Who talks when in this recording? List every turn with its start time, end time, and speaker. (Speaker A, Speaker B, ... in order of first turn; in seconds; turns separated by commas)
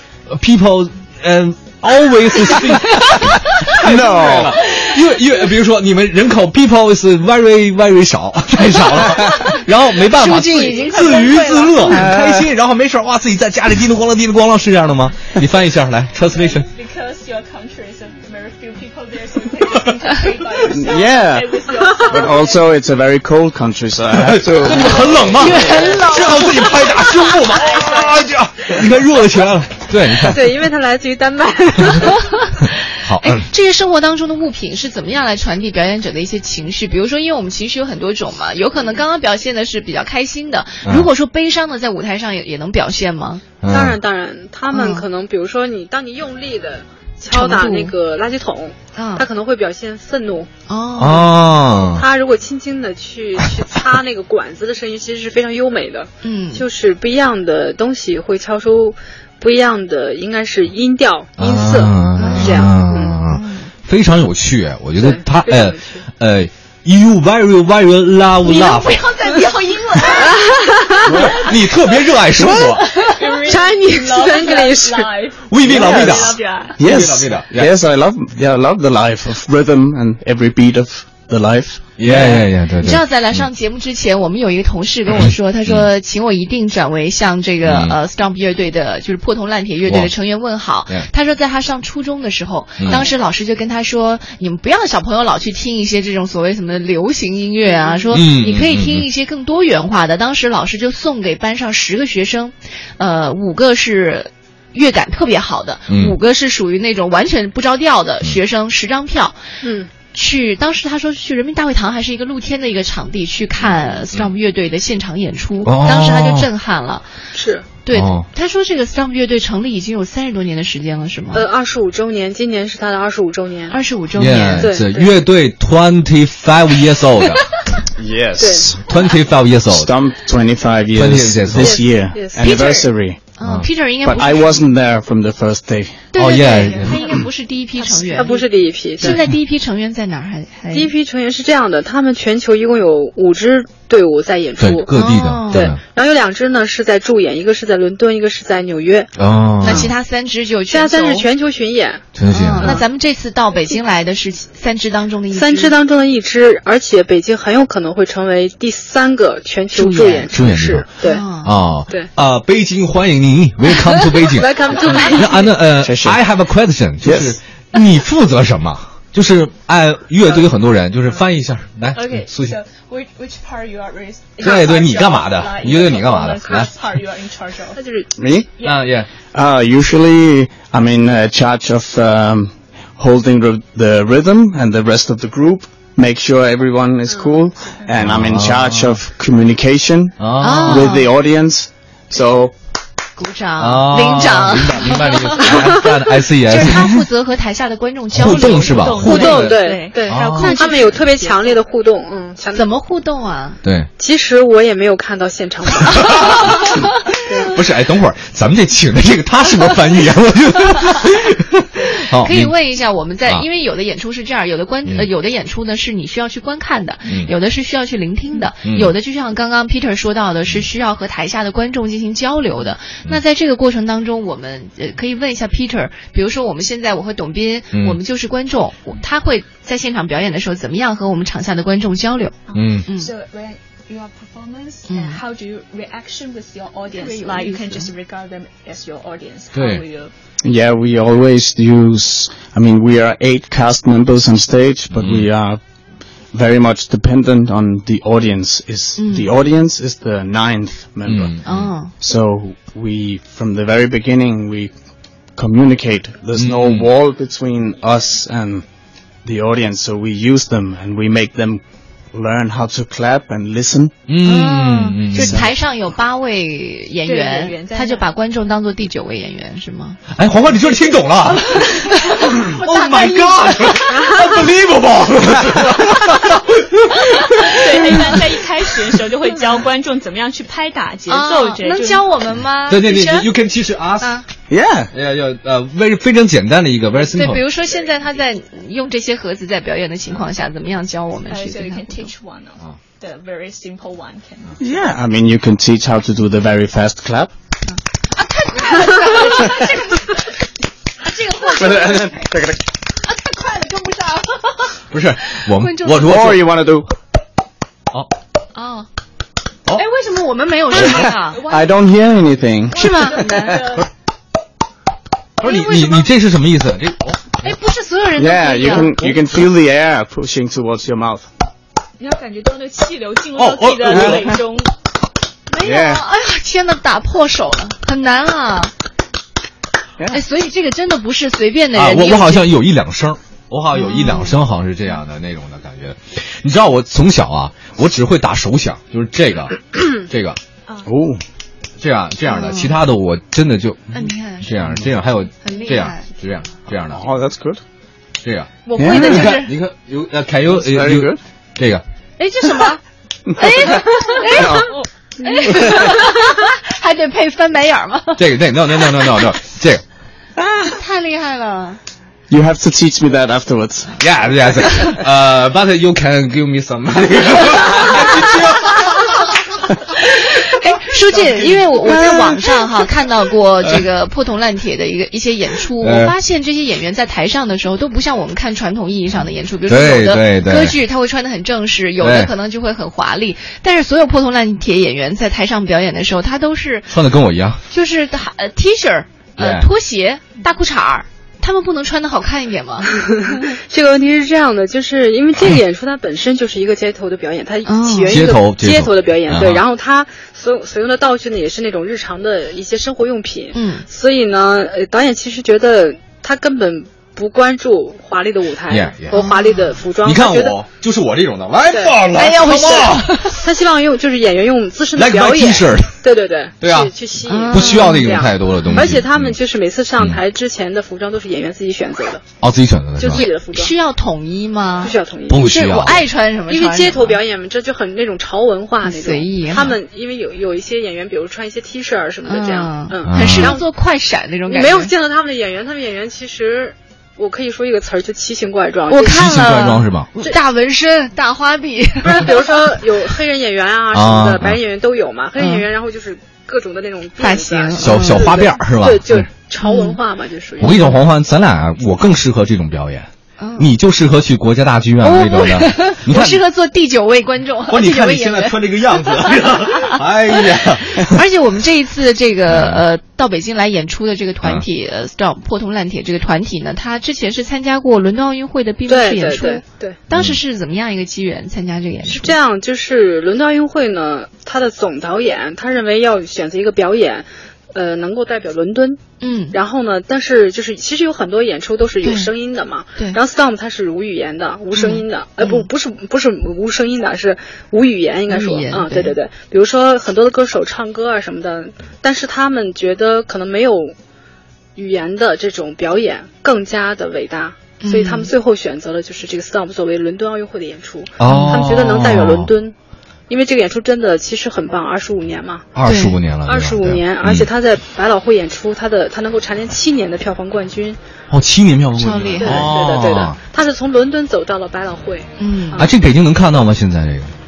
Speaker A: 0.3-16.7, Speaker B: 3.7-4.5, Speaker C: 8.8-12.0, Speaker D: 10.8-11.7, Speaker B: 11.9-12.5, Speaker D: 16.3-22.7, Speaker B: 20.6-25.9, Speaker A: 24.1-30.5, Speaker C: 25.3-27.6, Speaker D: 27.4-28.2, Speaker E: 30.2-32.2, Speaker A: 31.8-32.1, Speaker C: 32.0-43.4, Speaker A: 32.6-33.5, Speaker A: 43.6-44.0, Speaker E: 43.7-50.5, Speaker C: 44.7-45.0, Speaker C: 47.3-47.9, Speaker C: 49.0-49.3, Speaker C: 50.7-51.4, Speaker A: 51.0-52.1, Speaker E: 52.0-63.2, Speaker C: 56.2-56.7, Speaker A: 61.4-69.1, Speaker C: 62.2-62.7, Speaker C: 63.3-63.7, Speaker E: 65.0-66.0, Speaker D: 68.5-70.5, Speaker E: 70.2-71.3, Speaker B: 71.0-71.4, Speaker A: 71.2-72.9, Speaker C: 72.9-73.7, Speaker D: 73.0-76.8, Speaker E: 73.5-75.1, Speaker A: 75.5-77.7, Speaker B: 75.7-82.5, Speaker A: 82.0-83.5, Speaker C: 82.8-109.4, Speaker A: 85.2-85.8, Speaker A: 87.6-88.0, Speaker A: 89.9-90.1, Speaker A: 92.8-93.1, Speaker A: 98.1-99.1, Speaker A: 105.9-106.2, Speaker E: 109.6-109.9, Speaker C: 110.1-117.1, Speaker A: 115.6-116.5, Speaker E: 117.3-117.7, Speaker C: 117.8-121.5, Speaker A: 117.9-118.3, Speaker E: 121.3-123.8, Speaker C: 123.7-124.7, Speaker A: 124.2-127.5, Speaker E: 124.6-125.1, Speaker B: 128.0-128.8, Speaker E: 128.4-128.7, Speaker A: 128.9-129.9, Speaker B: 129.7-133.2, Speaker A: 130.9-131.8, Speaker E: 131.6-132.6, Speaker C: 132.4-134.6, Speaker A: 133.4-133.7, Speaker B: 134.0-136.1, Speaker C: 136.1-138.4, Speaker A: 136.2-137.0, Speaker D: 136.7-137.2, Speaker D: 137.8-138.4, Speaker E: 138.1-139.2, Speaker C: 139.0-140.9, Speaker E: 140.7-144.9, Speaker A: 144.6-145.8, Speaker C: 144.9-145.7, Speaker E: 145.5-149.1, Speaker A: 149.2-149.9, Speaker C: 149.6-151.3, Speaker E: 150.7-152.1, Speaker A: 152.2-152.8, Speaker C: 152.3-155.8, Speaker E: 155.3-161.2, Speaker C: 159.7-160.3, Speaker A: 160.2-160.9, Speaker C: 161.0-161.6, Speaker A: 161.4-172.6, Speaker E: 164.2-165.6, Speaker B: 165.8-166.2, Speaker B: 167.0-167.4, Speaker D: 171.9-177.8, Speaker A: 174.4-176.7, Speaker E: 177.8-178.1, Speaker B: 178.2-178.5, Speaker D: 178.6-178.9, Speaker A: 178.6-179.1, Speaker B: 179.3-192.5, Speaker A: 188.0-189.0, Speaker A: 190.2-191.0, Speaker C: 190.4-191.1, Speaker C: 193.2-195.8, Speaker A: 193.6-197.0, Speaker C: 196.4-199.5, Speaker A: 198.1-200.6, Speaker D: 198.2-201.6, Speaker E: 199.0-202.7, Speaker C: 200.3-201.4, Speaker C: 202.5-203.6, Speaker A: 203.6-203.9, Speaker E: 204.0-206.7, Speaker A: 205.8-206.7, Speaker E: 207.3-207.6, Speaker A: 207.4-212.5, Speaker C: 211.9-233.1, Speaker A: 217.1-217.3, Speaker A: 218.7-218.9, Speaker A: 227.7-228.0, Speaker D: 232.5-240.1, Speaker A: 232.5-232.9, Speaker C: 234.9-235.2, Speaker C: 236.9-237.9, Speaker A: 239.5-239.8, Speaker B: 240.4-245.6, Speaker A: 244.9-245.3, Speaker B: 246.3-254.7, Speaker C: 249.0-249.3, Speaker A: 251.1-251.7, Speaker C: 251.4-251.9, Speaker B: 255.3-258.6, Speaker A: 256.4-256.9, Speaker B: 259.2-264.0, Speaker A: 264.1-265.4, Speaker C: 264.2-270.0, Speaker B: 265.1-265.5, Speaker D: 267.1-268.1, Speaker A: 270.1-277.1, Speaker C: 271.5-273.9, Speaker C: 277.2-277.9, Speaker D: 277.4-282.1, Speaker C: 281.1-283.3, Speaker A: 282.7-284.2, Speaker C: 284.0-284.3, Speaker B: 284.5-284.9, Speaker A: 284.9-287.4, Speaker C: 287.1-292.1, Speaker D: 291.3-294.8, Speaker B: 294.6-297.3, Speaker C: 297.7-300.3, Speaker C: 301.0-302.3, Speaker B: 301.4-302.6, Speaker C: 303.1-304.5, Speaker A: 304.9-306.4, Speaker C: 305.3-306.3, Speaker B: 306.0-306.9, Speaker C: 308.6-308.9, Speaker C: 309.7-311.4, Speaker B: 310.8-313.6, Speaker D: 310.9-311.8, Speaker C: 312.7-313.7, Speaker D: 312.8-313.9, Speaker C: 315.4-316.1, Speaker A: 315.4-317.4, Speaker C: 317.4-319.0, Speaker B: 318.2-321.3, Speaker A: 319.0-319.3, Speaker D: 322.0-324.7, Speaker A: 323.4-324.4, Speaker B: 323.9-324.3, Speaker C: 325.5-328.7, Speaker B: 325.6-326.0, Speaker C: 330.1-332.5, Speaker A: 331.8-340.4, Speaker C: 333.7-334.4, Speaker B: 340.9-341.2, Speaker A: 341.8-347.0, Speaker C: 342.3-342.8, Speaker C: 343.9-344.8, Speaker C: 345.4-346.1, Speaker B: 346.9-347.6, Speaker A: 348.2-351.8, Speaker C: 348.6-349.5, Speaker B: 348.8-349.3, Speaker B: 350.6-351.2, Speaker C: 352.2-352.8, Speaker B: 353.3-354.7, Speaker C: 353.4-359.3, Speaker B: 355.3-356.0, Speaker A: 358.2-359.8, Speaker C: 360.6-361.8, Speaker B: 362.3-364.0, Speaker A: 364.0-369.0, Speaker C: 368.0-369.1, Speaker C: 370.0-386.9, Speaker B: 371.9-372.4, Speaker A: 375.8-376.2, Speaker A: 379.7-380.8, Speaker A: 382.0-382.3, Speaker A: 386.9-387.6, Speaker C: 387.7-393.4, Speaker A: 389.4-389.7, Speaker E: 392.9-410.6, Speaker C: 397.7-398.3, Speaker A: 398.1-399.6, Speaker C: 403.5-403.9, Speaker A: 408.7-409.3, Speaker C: 409.1-409.8, Speaker A: 410.0-413.3, Speaker E: 411.7-412.0, Speaker C: 412.1-413.4, Speaker E: 413.4-422.2, Speaker A: 414.9-416.0, Speaker A: 416.6-416.9, Speaker C: 417.3-419.0, Speaker A: 417.5-419.4, Speaker A: 422.4-423.2, Speaker E: 423.0-423.7, Speaker C: 423.1-427.2, Speaker E: 424.8-425.5, Speaker A: 425.3-426.1, Speaker E: 426.5-433.7, Speaker C: 428.8-429.8, Speaker C: 432.3-434.9, Speaker A: 433.1-433.6, Speaker E: 434.5-439.2, Speaker C: 438.9-442.8, Speaker A: 439.1-440.1, Speaker E: 442.0-450.9, Speaker A: 443.9-444.6, Speaker C: 445.4-445.6, Speaker C: 447.2-448.4, Speaker A: 447.8-449.3, Speaker C: 449.6-450.0, Speaker A: 450.6-456.4, Speaker C: 453.4-453.7, Speaker C: 455.0-460.0, Speaker A: 457.7-461.2, Speaker C: 460.9-472.4, Speaker A: 462.5-462.8, Speaker E: 468.9-470.0, Speaker A: 470.1-470.4, Speaker E: 472.1-479.0, Speaker C: 479.2-479.6, Speaker E: 479.5-494.0, Speaker C: 482.0-482.3, Speaker C: 484.8-485.7, Speaker C: 488.3-489.2, Speaker E: 494.8-502.8, Speaker C: 497.8-498.3, Speaker A: 501.2-502.5, Speaker C: 501.2-501.7, Speaker E: 503.3-505.7, Speaker A: 505.8-507.5, Speaker C: 505.9-506.2, Speaker E: 506.5-511.0, Speaker A: 511.3-513.4, Speaker C: 512.0-512.7, Speaker E: 512.4-515.9, Speaker C: 515.4-515.9, Speaker A: 515.8-517.3